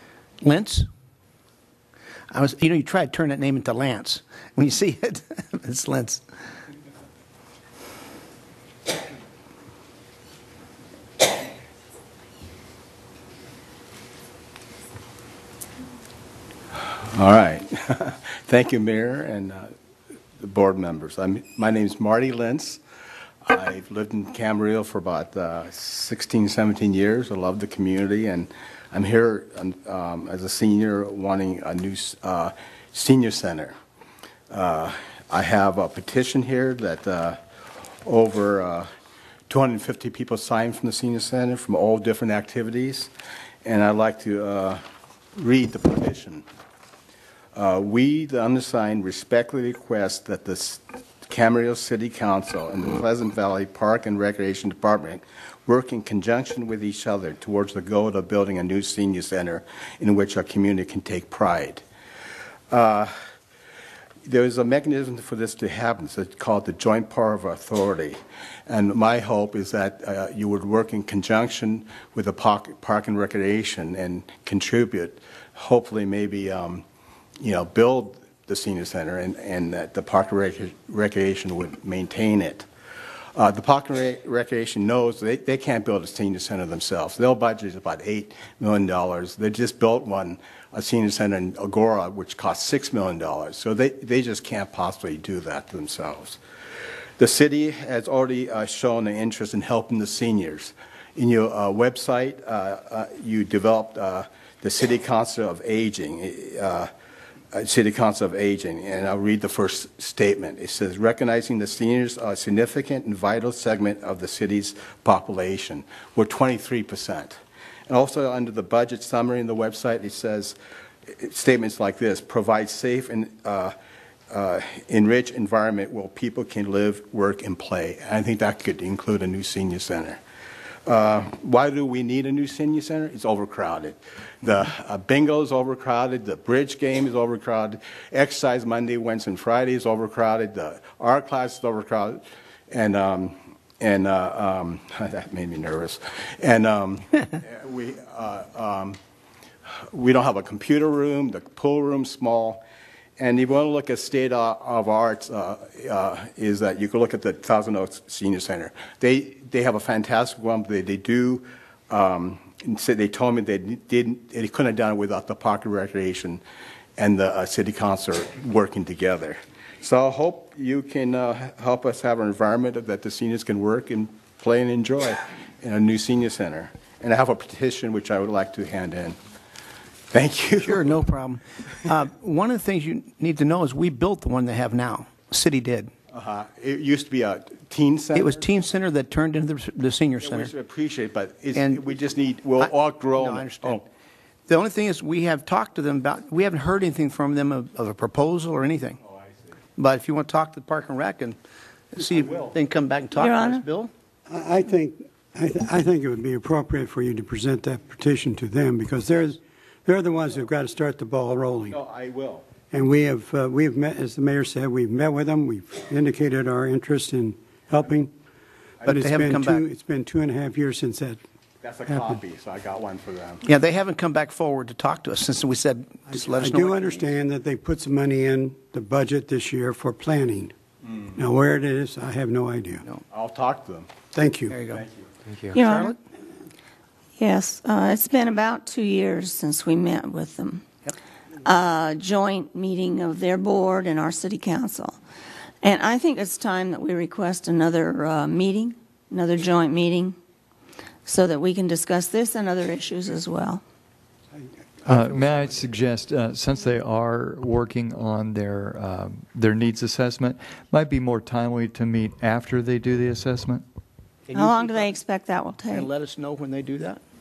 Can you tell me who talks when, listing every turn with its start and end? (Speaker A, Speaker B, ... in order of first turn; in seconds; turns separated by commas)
Speaker A: 0.4-0.9, Speaker A: 2.3-6.2, Speaker B: 16.9-19.7, Speaker B: 20.4-22.8, Speaker B: 23.5-33.8, Speaker B: 34.5-37.4, Speaker B: 38.0-38.9, Speaker B: 39.5-43.1, Speaker B: 43.6-44.8, Speaker B: 45.4-46.4, Speaker B: 47.5-61.8, Speaker B: 62.7-63.1, Speaker B: 64.2-76.8, Speaker B: 77.4-82.7, Speaker B: 83.4-96.4, Speaker B: 97.2-106.9, Speaker B: 107.5-120.6, Speaker B: 121.1-123.7, Speaker B: 124.3-130.2, Speaker B: 130.9-149.0, Speaker B: 149.9-152.6, Speaker B: 153.2-166.4, Speaker B: 167.0-179.2, Speaker B: 180.1-180.9, Speaker A: 180.6-185.9, Speaker B: 186.1-188.4, Speaker A: 188.1-190.5, Speaker B: 190.2-193.8, Speaker A: 191.6-191.9, Speaker A: 192.6-193.8, Speaker A: 194.5-199.0, Speaker B: 199.1-199.5, Speaker A: 199.8-201.4, Speaker A: 201.9-203.9, Speaker B: 202.2-202.6, Speaker C: 203.2-203.7, Speaker D: 204.3-211.8, Speaker B: 211.7-212.5, Speaker D: 212.7-218.1, Speaker B: 218.8-219.1, Speaker A: 218.8-219.7, Speaker D: 218.9-221.2, Speaker B: 221.6-223.4, Speaker D: 221.9-222.2, Speaker A: 223.4-227.1, Speaker D: 226.1-230.5, Speaker D: 231.2-232.8, Speaker B: 233.1-233.9, Speaker D: 234.1-234.6, Speaker A: 234.5-234.8, Speaker B: 234.7-235.1, Speaker C: 235.5-236.0, Speaker A: 235.6-236.0, Speaker C: 237.2-240.7, Speaker C: 241.4-245.0, Speaker C: 245.6-250.2, Speaker C: 251.1-253.6, Speaker E: 254.8-263.6, Speaker D: 254.9-255.3, Speaker A: 264.3-265.0, Speaker C: 264.3-265.9, Speaker A: 265.7-267.0